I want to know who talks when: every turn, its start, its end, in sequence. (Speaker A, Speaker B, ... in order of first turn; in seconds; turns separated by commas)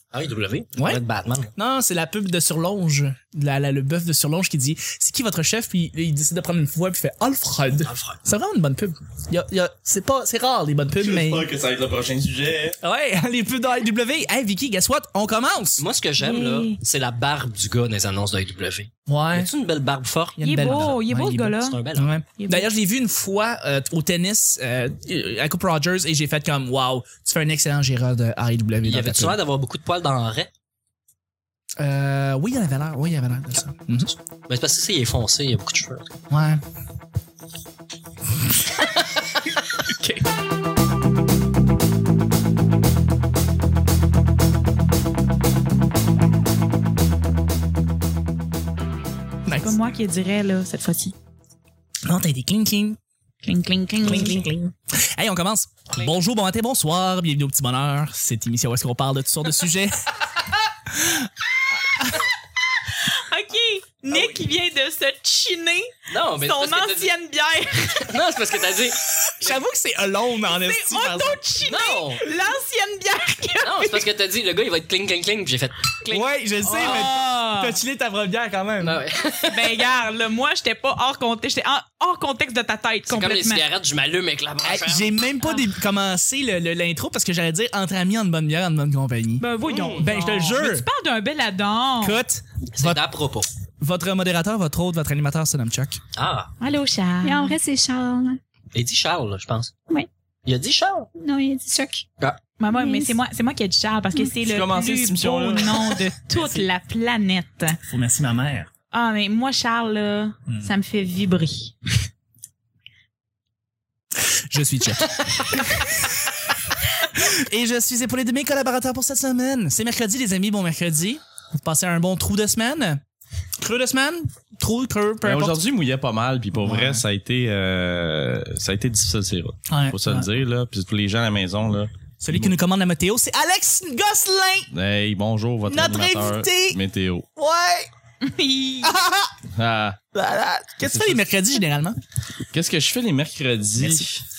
Speaker A: 0.1-1.5, Speaker B: 1.6-11.5, Speaker A: 7.8-8.2, Speaker C: 11.0-12.8, Speaker B: 12.8-15.8, Speaker A: 15.8-20.9, Speaker D: 16.2-16.8, Speaker B: 19.1-19.5, Speaker B: 20.4-29.4, Speaker D: 20.4-21.8, Speaker A: 21.6-22.1, Speaker D: 22.4-22.7, Speaker A: 28.8-30.5, Speaker B: 31.8-34.1, Speaker A: 34.5-36.1, Speaker B: 36.3-36.6, Speaker B: 49.5-49.8, Speaker D: 49.6-51.1, Speaker B: 52.0-53.0, Speaker D: 53.4-54.4, Speaker B: 54.0-60.0, Speaker B: 60.9-61.3, Speaker B: 61.9-62.2, Speaker D: 63.0-68.1, Speaker A: 64.1-64.4, Speaker A: 66.1-67.1, Speaker A: 68.0-69.5, Speaker B: 69.4-71.4, Speaker D: 70.5-74.0, Speaker A: 71.6-72.2, Speaker A: 73.6-77.1, Speaker B: 76.1-79.0, Speaker D: 76.7-77.8, Speaker A: 78.8-79.9, Speaker D: 79.5-83.6, Speaker A: 83.1-85.2, Speaker B: 84.6-90.9, Speaker D: 85.4-85.7, Speaker D: 89.4-92.2, Speaker A: 89.6-90.1, Speaker B: 92.0-93.0, Speaker A: 92.7-93.5, Speaker B: 93.8-96.0, Speaker A: 96.2-96.5, Speaker D: 96.6-97.6, Speaker E: 97.2-98.4, Speaker A: 98.7-99.7, Speaker A: 100.5-101.1, Speaker E: 101.2-102.0, Speaker D: 102.6-107.8, Speaker E: 102.8-103.2, Speaker C: 104.4-105.9, Speaker B: 106.3-106.7, Speaker B: 107.9-108.7, Speaker D: 108.9-111.8, Speaker B: 114.5-115.7, Speaker B: 117.1-123.0, Speaker B: 123.6-125.6, Speaker C: 125.2-132.6, Speaker B: 126.6-127.0, Speaker B: 129.7-130.3, Speaker B: 132.2-134.7, Speaker C: 134.7-137.3, Speaker B: 135.7-136.8, Speaker B: 137.4-137.9, Speaker D: 138.2-138.9, Speaker B: 138.8-139.4, Speaker C: 139.6-140.0, Speaker B: 140.1-142.0, Speaker C: 140.8-141.2, Speaker C: 142.5-144.2, Speaker B: 143.8-144.1